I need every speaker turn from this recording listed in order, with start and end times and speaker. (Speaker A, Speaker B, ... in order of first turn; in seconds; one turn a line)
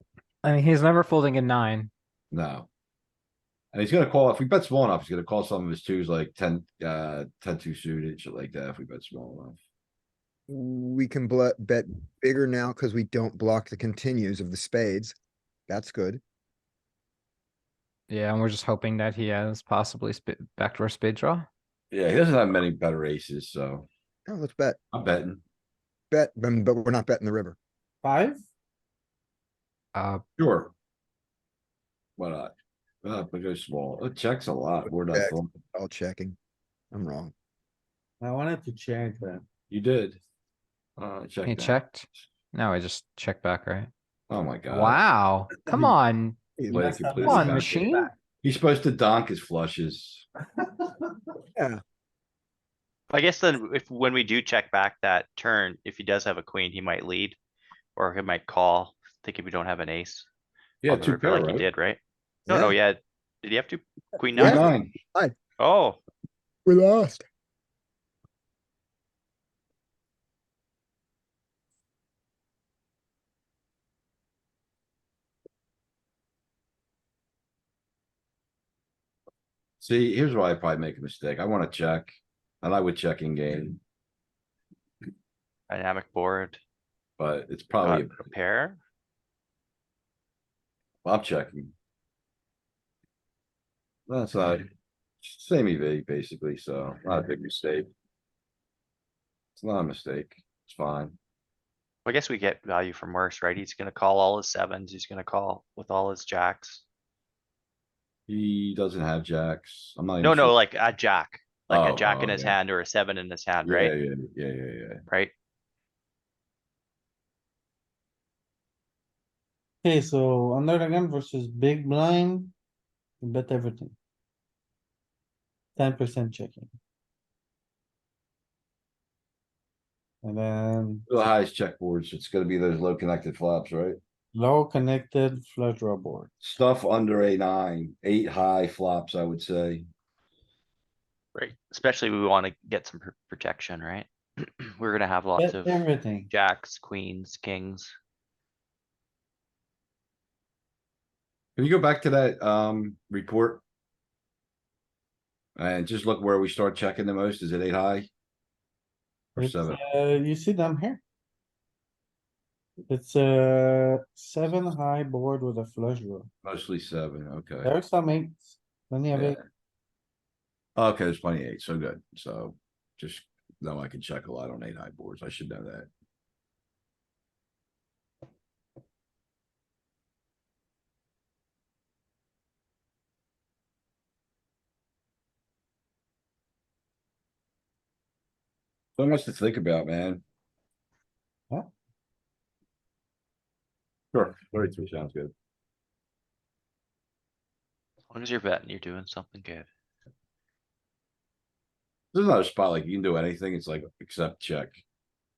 Speaker A: 0.4-1.9
Speaker B: 2.3-2.7
Speaker B: 3.7-9.6
Speaker C: 10.5-15.1
Speaker C: 15.7-16.2
Speaker A: 18.1-21.5
Speaker B: 21.9-23.9
Speaker C: 24.3-24.8
Speaker B: 24.9-25.4
Speaker C: 26.1-27.6
Speaker D: 28.0-28.4
Speaker B: 30.4-30.7
Speaker B: 32.2-35.5
Speaker C: 34.8-36.4
Speaker C: 36.9-37.3
Speaker D: 38.2-39.4
Speaker B: 39.7-40.2
Speaker B: 41.0-41.8
Speaker A: 41.5-43.9
Speaker B: 44.3-45.0
Speaker A: 44.8-46.4
Speaker C: 46.6-47.1
Speaker B: 46.7-50.2
Speaker D: 46.7-47.6
Speaker A: 47.2-48.0
Speaker C: 51.5-51.8
Speaker E: 53.1-57.4
Speaker E: 58.0-60.3
Speaker B: 60.8-61.7
Speaker E: 60.9-64.7
Speaker C: 62.5-62.8
Speaker C: 64.3-65.3
Speaker B: 64.4-64.9
Speaker E: 65.6-66.0
Speaker C: 66.7-67.2
Speaker B: 79.8-83.8
Speaker E: 85.7-86.6
Speaker B: 87.2-88.3
Speaker E: 87.8-88.8
Speaker B: 91.0-91.7
Speaker B: 94.1-94.7
Speaker B: 95.2-97.9
Speaker B: 99.5-101.2
Speaker E: 102.0-106.8
Speaker B: 108.3-110.6
Speaker E: 110.2-113.9
Speaker B: 111.7-112.5
Speaker B: 113.6-115.0
Speaker E: 115.1-115.3
Speaker D: 119.8-122.5
Speaker D: 123.2-124.0
Speaker D: 125.8-126.7
Speaker D: 130.2-131.1
Speaker B: 131.1-134.0
Speaker D: 134.3-136.3
Speaker B: 136.4-139.9
Speaker E: 141.3-147.9
Speaker D: 145.4-146.3
Speaker B: 151.6-153.6
Speaker B: 155.6-158.1
Speaker B: 159.3-159.8
Speaker D: 159.4-161.0
Speaker D: 162.9-166.3
Speaker B: 166.4-167.7
Speaker D: 167.6-169.4
Speaker B: 170.8-175.9
Speaker B: 189.0-190.2
Speaker B: 194.1-195.3
Speaker E: 198.1-199.7
Speaker B: 202.1-204.8